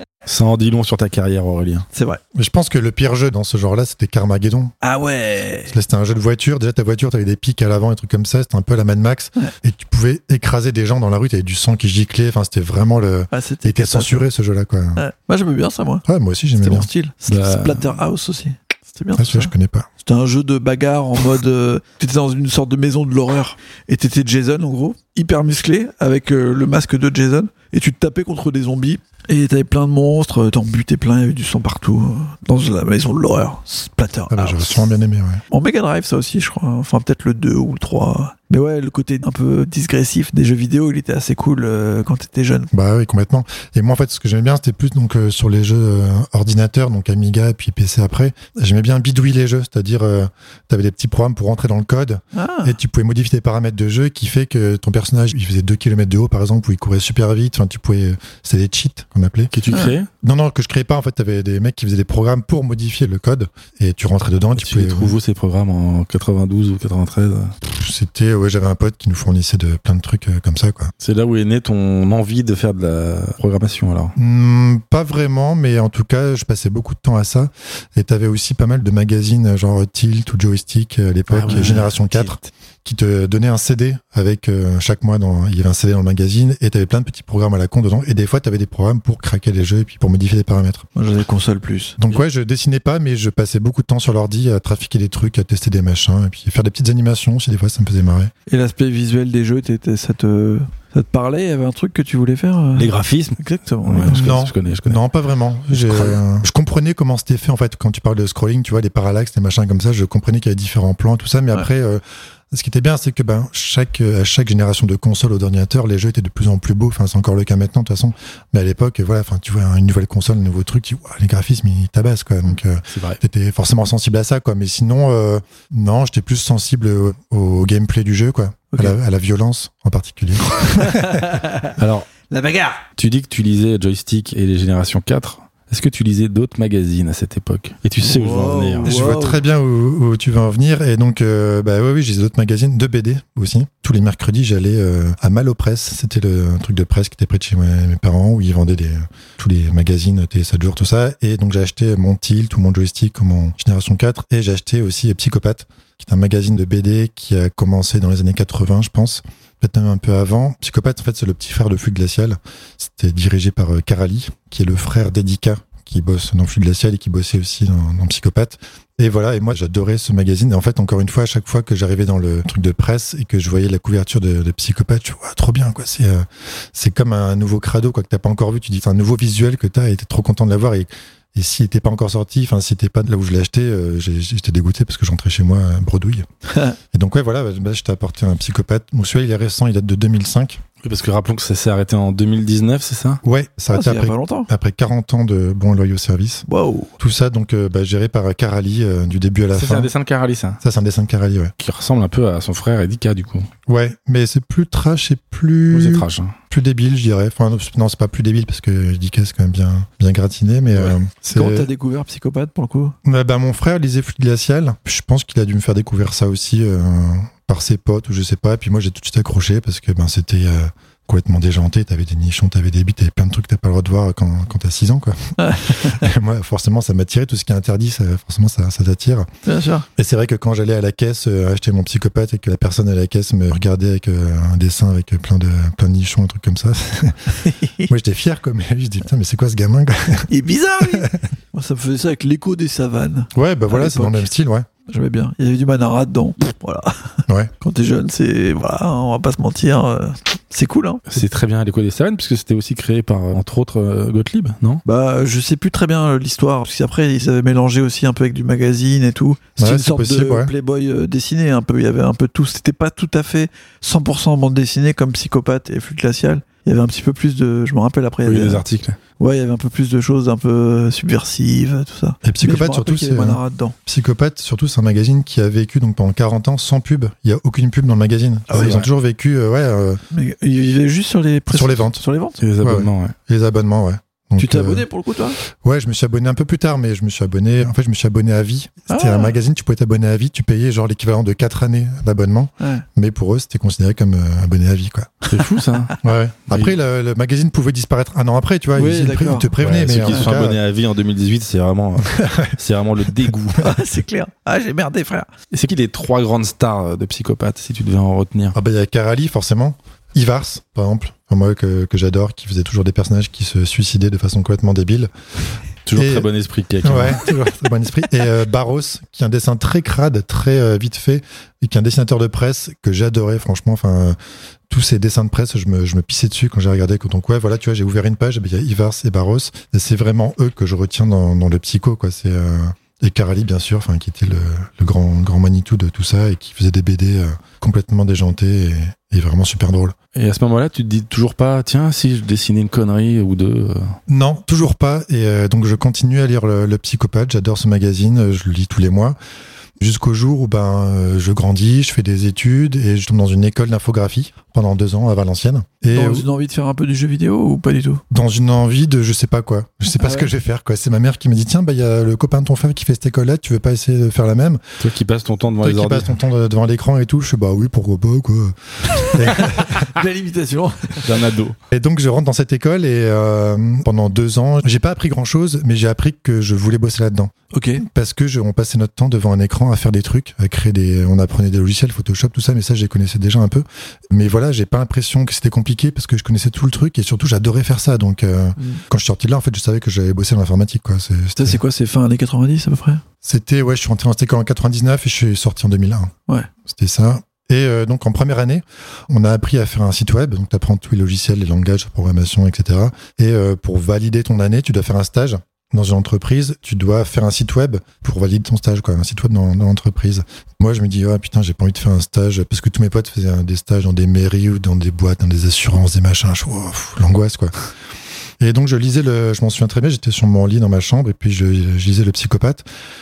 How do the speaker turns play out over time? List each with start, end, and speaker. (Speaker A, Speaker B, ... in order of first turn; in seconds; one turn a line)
Speaker A: 0.2-1.9
Speaker B: 1.9-2.2
Speaker C: 2.3-4.7
Speaker B: 4.8-5.7
Speaker C: 5.7-15.0
Speaker B: 13.3-14.2
Speaker B: 15.0-16.1
Speaker C: 16.1-16.9
Speaker B: 16.6-34.8
Speaker A: 17.3-18.0
Speaker C: 19.2-19.9
Speaker C: 34.3-35.4
Speaker B: 35.5-42.7
Speaker C: 42.7-59.5
Speaker B: 52.4-52.7
Speaker A: 59.5-60.1
Speaker C: 60.2-65.2
Speaker A: 64.6-67.5
Speaker C: 67.7-70.9
Speaker A: 71.0-74.2
Speaker C: 74.2-90.8
Speaker A: 81.3-82.2
Speaker B: 81.5-81.9
Speaker B: 91.0-92.0
Speaker C: 92.0-98.3
Speaker B: 98.5-104.3
Speaker A: 102.8-105.0
Speaker C: 104.0-131.3
Speaker A: 122.9-123.2
Speaker B: 130.8-131.7
Speaker A: 131.8-132.1
Speaker B: 132.3-132.8
Speaker A: 133.0-139.0
Speaker B: 138.0-139.4
Speaker C: 138.8-186.3
Speaker C: 186.9-190.6
Speaker A: 190.8-193.2
Speaker C: 193.2-196.5
Speaker B: 193.7-194.5
Speaker B: 196.5-196.9
Speaker C: 197.0-199.9
Speaker A: 199.5-200.6
Speaker C: 200.6-201.5
Speaker A: 201.6-203.5
Speaker C: 203.7-211.7
Speaker A: 205.7-206.4
Speaker B: 211.3-212.9
Speaker C: 213.1-229.3
Speaker B: 225.4-226.1
Speaker B: 229.5-229.9
Speaker C: 230.0-241.2
Speaker B: 237.5-237.9
Speaker B: 240.3-244.3
Speaker C: 243.3-244.7
Speaker B: 244.9-251.0
Speaker A: 251.1-254.8
Speaker B: 254.9-268.6
Speaker C: 259.6-260.5
Speaker A: 268.2-269.0
Speaker B: 269.2-273.7
Speaker C: 272.2-280.0
Speaker B: 278.5-278.9
Speaker B: 280.1-282.4
Speaker C: 281.5-282.0
Speaker A: 282.4-283.1
Speaker C: 282.6-284.9
Speaker B: 284.4-285.4
Speaker C: 285.4-295.3
Speaker B: 288.9-289.4
Speaker B: 292.6-292.9
Speaker A: 295.3-296.0
Speaker C: 296.0-300.6
Speaker A: 296.5-296.8
Speaker B: 298.8-299.5
Speaker A: 299.6-303.8
Speaker C: 302.1-302.6
Speaker B: 303.6-305.3
Speaker A: 305.5-308.6
Speaker C: 308.6-315.1
Speaker A: 315.9-317.2
Speaker C: 315.9-316.3
Speaker C: 316.8-324.2
Speaker C: 324.7-339.9
Speaker A: 340.1-344.0
Speaker C: 344.1-349.2
Speaker C: 349.8-356.3
Speaker B: 355.9-358.0
Speaker C: 358.1-364.8
Speaker B: 360.0-360.3
Speaker A: 364.8-366.2
Speaker C: 365.6-369.9
Speaker B: 369.0-371.2
Speaker A: 371.0-371.6
Speaker C: 371.7-391.6
Speaker B: 377.5-377.8
Speaker B: 391.4-393.0
Speaker C: 393.2-396.1
Speaker C: 396.6-417.5
Speaker C: 418.4-422.6